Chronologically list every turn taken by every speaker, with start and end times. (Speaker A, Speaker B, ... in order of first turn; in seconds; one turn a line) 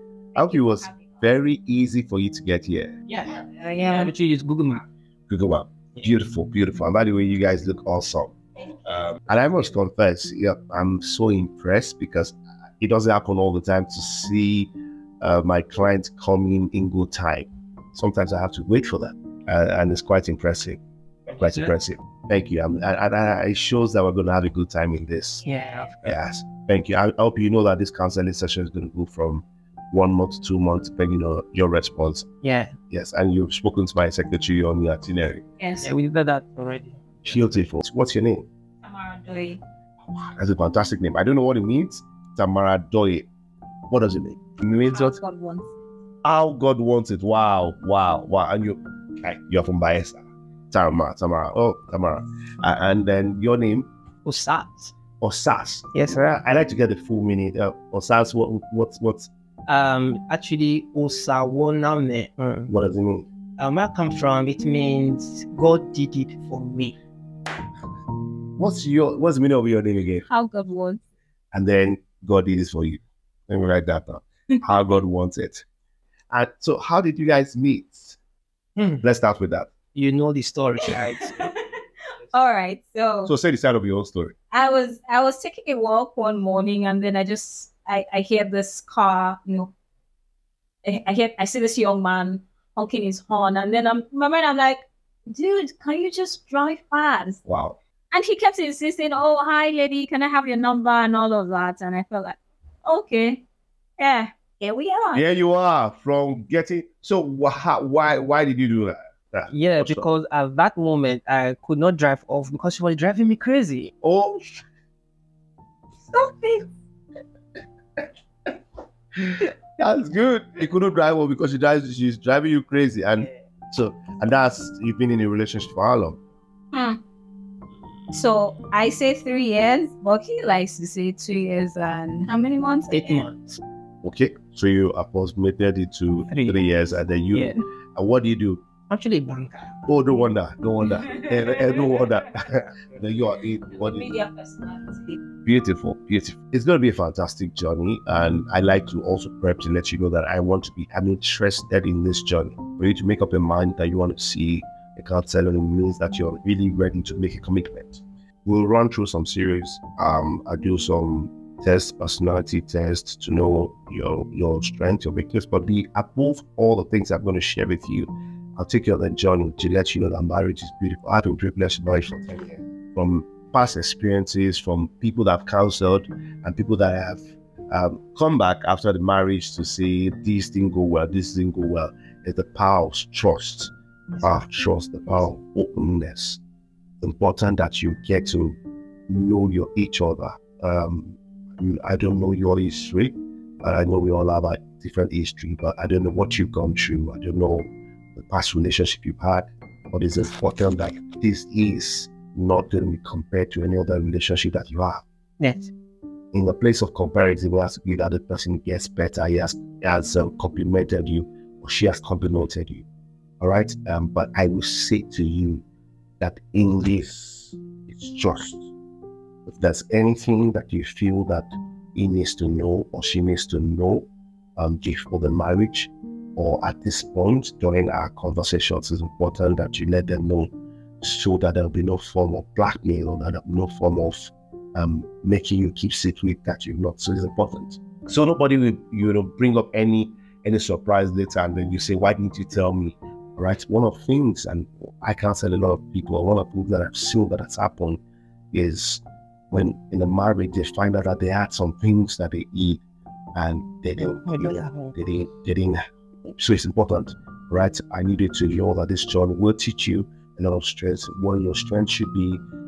Speaker A: 0.3-2.9
Speaker B: 0.4-0.8
Speaker C: 3.1-4.8
Speaker B: 3.6-4.1
Speaker A: 5.3-20.8
Speaker C: 21.4-21.7
Speaker A: 21.4-25.4
Speaker C: 25.4-26.1
Speaker A: 26.0-32.3
Speaker C: 32.4-32.7
Speaker A: 32.9-35.4
Speaker B: 35.6-35.9
Speaker C: 35.8-37.4
Speaker A: 37.2-38.5
Speaker B: 38.9-39.6
Speaker A: 40.4-43.3
Speaker A: 43.9-45.2
Speaker B: 44.9-45.7
Speaker A: 46.2-53.9
Speaker C: 54.2-54.9
Speaker A: 55.2-55.9
Speaker C: 55.9-56.4
Speaker A: 56.4-59.3
Speaker C: 59.7-62.7
Speaker A: 62.7-63.3
Speaker C: 63.6-67.0
Speaker A: 68.6-70.2
Speaker B: 70.3-71.0
Speaker A: 71.5-75.7
Speaker A: 76.3-78.2
Speaker C: 78.8-79.0
Speaker A: 79.0-79.7
Speaker C: 79.9-81.3
Speaker B: 80.8-81.5
Speaker B: 82.3-83.3
Speaker A: 83.2-84.3
Speaker B: 84.5-89.7
Speaker B: 90.8-97.4
Speaker A: 97.5-97.8
Speaker B: 98.1-103.4
Speaker B: 104.0-105.2
Speaker A: 105.1-110.0
Speaker C: 109.5-113.9
Speaker A: 114.0-114.6
Speaker A: 119.8-126.2
Speaker B: 126.7-127.0
Speaker B: 128.1-133.3
Speaker C: 132.9-133.6
Speaker A: 134.0-138.6
Speaker C: 136.3-136.6
Speaker C: 138.9-139.7
Speaker A: 139.8-144.1
Speaker B: 141.1-141.9
Speaker B: 143.8-145.2
Speaker A: 145.4-186.4
Speaker C: 184.1-184.4
Speaker A: 187.0-188.6
Speaker A: 189.1-205.0
Speaker C: 205.4-205.7
Speaker A: 206.3-212.8
Speaker A: 213.4-215.6
Speaker A: 216.2-218.7
Speaker A: 219.4-248.0
Speaker A: 248.5-252.8
Speaker A: 253.3-255.8
Speaker C: 254.0-254.9
Speaker A: 256.4-262.4